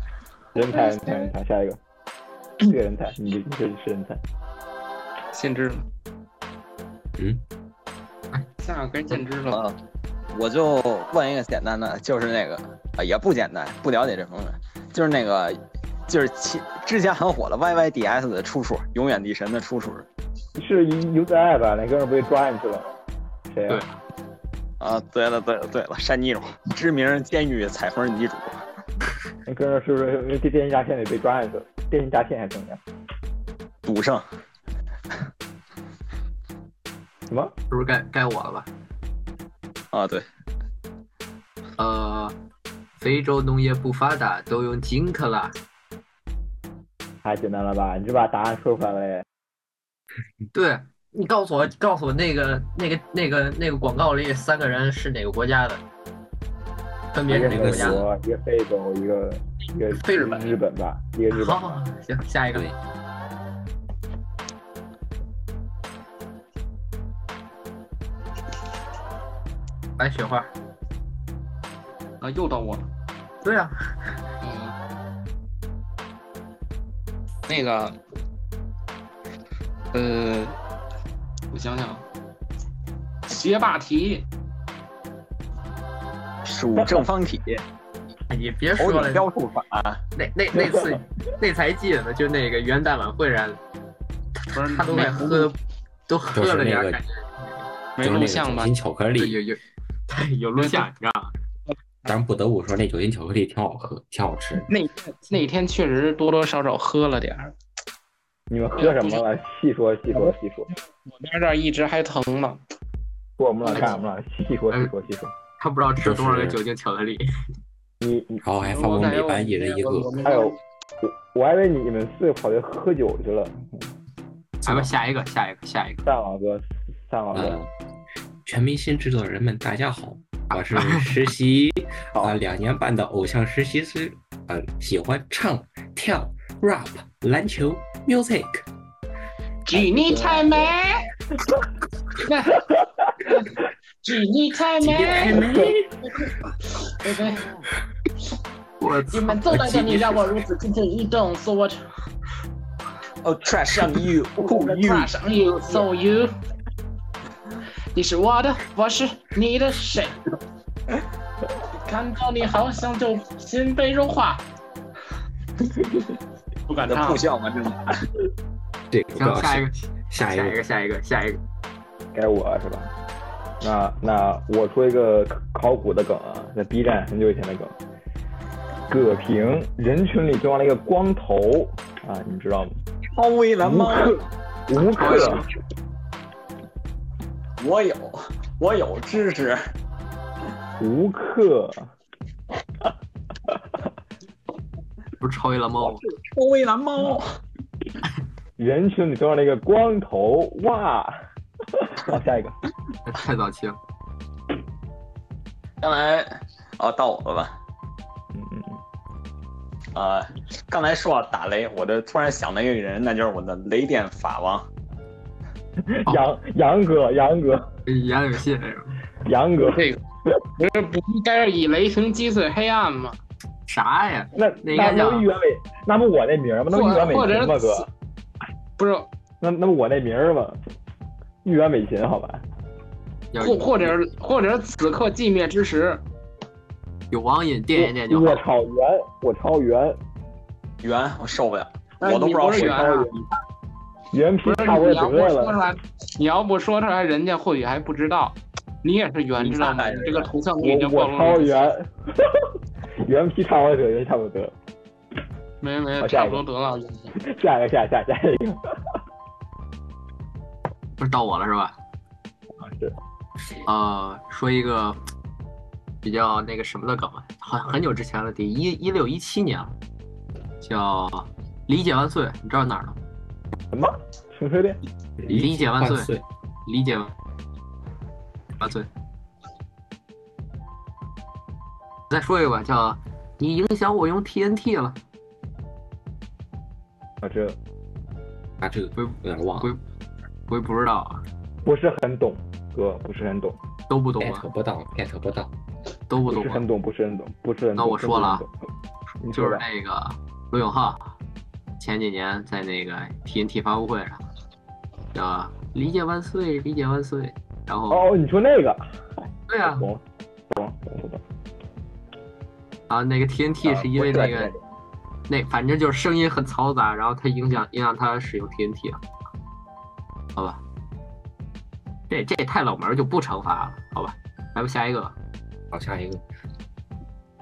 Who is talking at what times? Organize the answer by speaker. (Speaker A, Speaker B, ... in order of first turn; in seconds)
Speaker A: 0.5-1.8, 2.6-4.2, 20.6-22.9, 23.5-23.8, 29.4-32.8, 37.3-37.5, 47.2-49.2, 57.3-61.8, 90.6-91.0, 108.5-110.7, 113.4-115.3, 118.0-118.4, 120.2-123.9, 126.0-127.6, 145.4-145.7, 172.1-172.9, 173.6-177.7, 178.9-182.8, 183.6-185.5, 190.8-191.9, 198.6-202.6, 208.3-208.8, 215.8-217.7, 219.2-219.9, 224.3-227.9, 229.4-230.6, 231.4-232.4, 237.7-240.0, 244.1-245.6, 250.6-254.5, 256.0-256.4, 257.1-258.6, 262.6-262.9, 273.7-274.8, 287.2-287.6, 291.6-293.6, 296.2-298.5, 299.2-299.6, 307.9-308.9, 309.6-311.2, 313.7-314.6
Speaker B: 0.6-1.3, 5.3-5.8, 8.6-9.6, 72.2-72.9, 74.4-74.7, 77.5-78.0, 79.9-80.6, 81.5-82.0, 83.3-84.2, 94.5-95.5, 98.0-98.7, 100.6-100.9, 104.7-107.5, 108.8-109.2, 111.0-112.6, 113.6-114.0, 118.6-120.6, 139.7-141.0, 142.2-142.6, 144.0-147.5, 149.1-151.8, 154.4-156.3, 157.9-160.2, 161.8-164.4, 166.7-167.2, 219.6-220.0, 220.6-223.2, 226.7-227.8, 228.8-229.1, 233.4-236.0, 242.0-243.1, 244.4-251.7, 255.6-257.1
Speaker C: 7.2-7.4, 57.3-58.0, 96.3-97.0, 98.0-99.4, 102.0-104.7, 116.0-116.6, 118.4-120.1, 124.6-124.9, 127.3-127.7, 128.4-138.6, 145.0-145.3, 168.9-170.6, 275.2-276.2, 288.6-289.7, 294.2-295.5, 325.7-326.2
Speaker D: 9.5-9.7, 10.3-20.1, 24.8-28.6, 33.8-34.2, 39.9-40.2, 86.4-87.6, 88.8-90.0, 153.2-155.1, 166.8-168.1, 183.1-184.3, 184.9-185.4, 187.6-189.6, 195.8-197.3, 205.8-207.6, 209.9-214.7, 240.8-243.2, 249.4-250.3, 314.0-314.3
Speaker E: 23.7-24.0, 37.7-38.7, 41.8-42.4, 43.0-45.5, 50.5-55.8, 57.1-58.0, 60.0-60.6, 61.3-62.7, 70.0-70.5, 73.4-73.9, 88.3-89.2, 90.2-93.6, 94.4-95.6, 96.1-97.6, 99.2-101.3, 115.6-117.2, 124.6-126.0, 130.5-131.1, 148.8-150.1, 169.1-171.4, 185.0-185.4, 195.2-196.0, 203.0-203.8, 217.8-219.0, 223.7-225.3, 233.3-233.9, 237.1-238.4, 261.0-261.8, 263.6-265.0, 266.0-269.8, 270.6-273.0, 275.3-276.1, 276.6-277.1, 278.6-278.9, 282.1-285.0, 288.9-289.8, 290.5-291.2, 293.9-294.4, 296.1-296.6, 297.8-298.4, 299.3-301.1, 301.8-304.2, 305.1-308.1, 309.5-309.9, 312.9-314.5, 315.3-319.0, 320.4-320.6, 322.1-325.1